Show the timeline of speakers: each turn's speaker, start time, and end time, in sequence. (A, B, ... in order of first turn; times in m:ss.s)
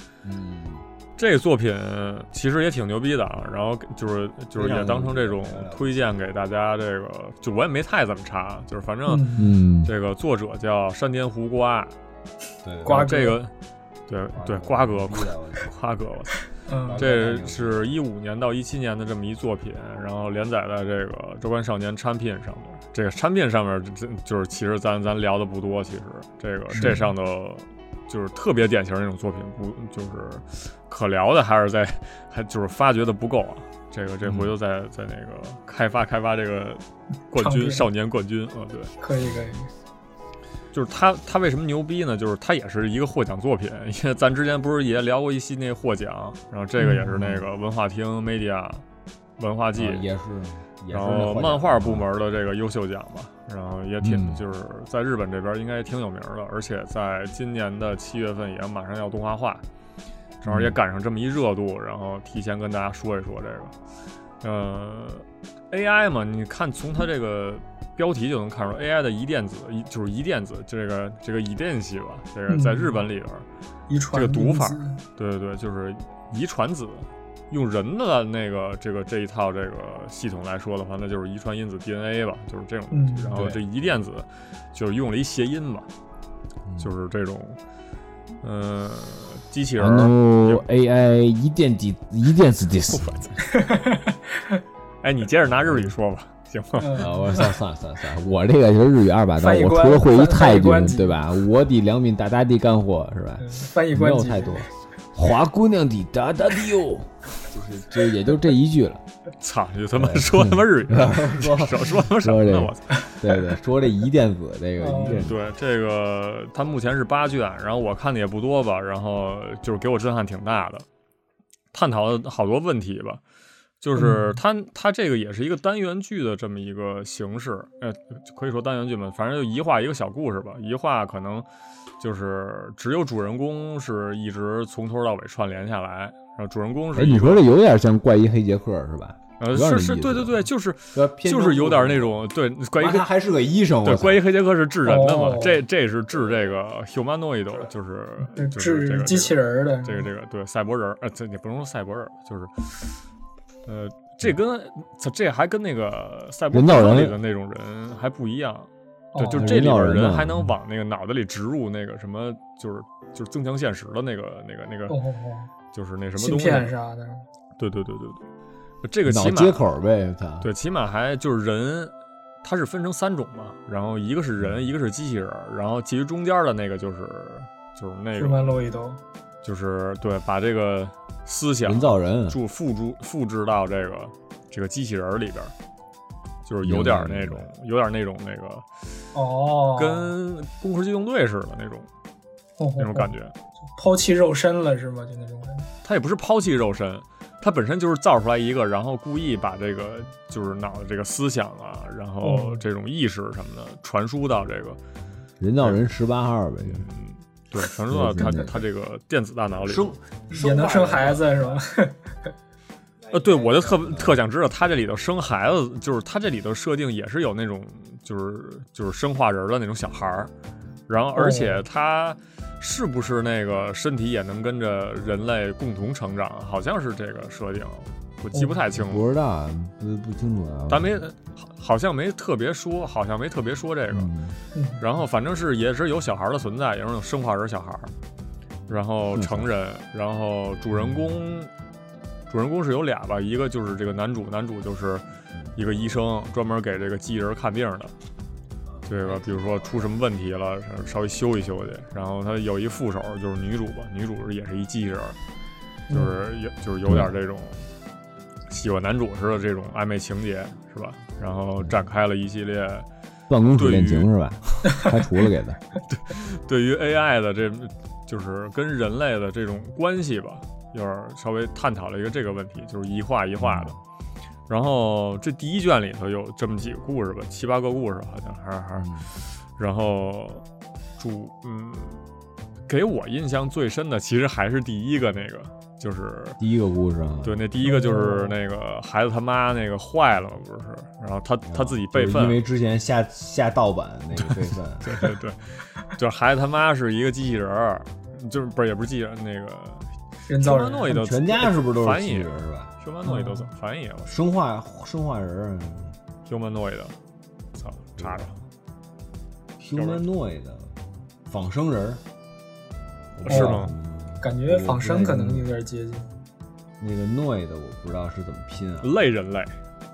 0:00.2-0:00.8 A
0:01.2-0:09.3 B
0:04.6-0:06.0 A
0:09.1-0:09.5 C
0:09.4-0:09.9 A
0:09.8-0:12.0 B
0:12.6-0:13.0 A
0:12.8-0:13.4 C
0:12.8-0:13.5 B
0:14.1-0:16.4 B
0:14.3-0:15.7 A
0:16.6-0:17.0 C
0:16.8-0:17.9 A
0:17.0-0:38.9 B
0:26.7-0:27.0 A
0:26.8-0:27.1 C
0:34.2-0:34.5 A
0:37.4-0:37.9 C
0:39.0-0:39.7 C
0:40.7-0:48.8 B
0:46.8-0:47.2 C
0:47.1-0:47.4 A
0:49.4-0:50.0 B
0:49.8-0:52.1 A
0:50.9-0:59.6 B
0:54.0-0:54.4 A
1:00.4-1:03.7 B
1:00.4-1:00.8 A
1:04.4-1:13.5 B
1:12.5-1:13.0 C
1:13.9-1:15.0 C
1:14.1-1:25.9 B
1:22.9-1:23.4 C
1:23.4-1:23.6 A
1:26.8-1:27.6 B
1:28.4-1:30.6 B
1:29.8-1:33.4 A
1:32.9-1:33.4 B
1:33.5-1:34.6 C
1:35.0-1:37.1 B
1:36.8-1:37.5 C
1:37.0-1:49.0 A
1:39.4-1:41.2 C
1:43.4-1:44.6 C
1:49.4-1:53.1 B
1:50.0-1:55.4 A
1:54.8-1:55.3 C
1:55.2-2:00.9 B
2:01.7-2:03.2 B
2:03.8-2:11.5 B
2:04.0-2:04.4 C
2:12.0-2:17.5 B
2:16.9-2:22.2 A
2:19.4-2:23.1 B
2:22.8-2:24.3 A
2:23.8-2:32.5 B
2:24.8-2:25.6 C
2:28.3-2:30.1 C
2:33.7-2:45.0 B
2:36.5-2:37.2 A
2:39.1-2:39.5 C
2:39.3-2:40.5 A
2:44.9-2:45.5 C
2:45.7-2:46.7 B
2:46.2-2:47.2 C
2:47.6-2:48.3 B
2:48.8-2:49.6 B
2:49.0-2:50.5 A
2:50.4-2:58.6 B
2:58.2-2:59.0 C
2:59.4-3:05.5 B
3:01.6-3:02.4 A
3:06.4-3:08.7 B
3:06.6-3:07.4 A
3:09.2-3:10.1 C
3:09.8-3:11.9 B
3:12.6-3:13.1 C
3:12.8-3:13.3 B
3:13.8-3:15.7 C
3:15.8-3:24.8 B
3:22.2-3:22.6 C
3:25.4-3:26.9 A
3:26.6-3:29.9 B
3:27.9-3:28.7 A
3:29.6-3:31.5 A
3:30.3-3:32.0 C
3:33.1-3:40.3 B
3:33.2-3:34.2 A
3:40.9-3:49.0 B
3:41.2-3:41.6 C
3:48.7-3:51.0 A
3:50.7-3:54.1 B
3:53.9-3:54.4 A
3:54.6-3:54.8 C
3:54.8-3:57.9 B
3:58.7-4:01.5 B
3:59.2-3:59.5 A
4:00.8-4:01.2 A
4:02.3-4:07.9 B
4:08.9-4:15.2 B
4:15.9-4:16.2 C
4:15.9-4:17.7 B
4:16.8-4:17.1 A
4:18.5-4:22.9 B
4:23.3-4:25.6 A
4:23.6-4:24.1 B
4:25.9-4:33.8 B
4:33.4-4:33.8 A
4:34.5-4:38.9 B
4:38.8-4:39.1 A
4:39.6-4:40.4 B
4:41.0-4:42.0 B
4:42.7-4:46.4 B
4:46.4-4:47.5 A
4:47.2-4:52.4 B
4:47.6-4:48.4 C
4:51.5-4:55.0 A
4:54.3-4:59.9 B
5:00.3-5:01.0 C
5:00.4-5:04.1 B
5:00.9-5:02.7 A
5:03.0-5:03.5 C
5:04.1-5:06.0 A
5:06.3-5:07.0 B
5:07.6-5:08.4 B
5:08.0-5:08.4 A
5:09.6-5:12.0 A
5:09.8-5:10.0 B
5:13.1-5:15.5 A
5:13.2-5:13.7 C
5:13.2-5:13.8 B
5:14.2-5:16.1 C
5:16.8-5:18.9 A
5:18.8-5:19.6 B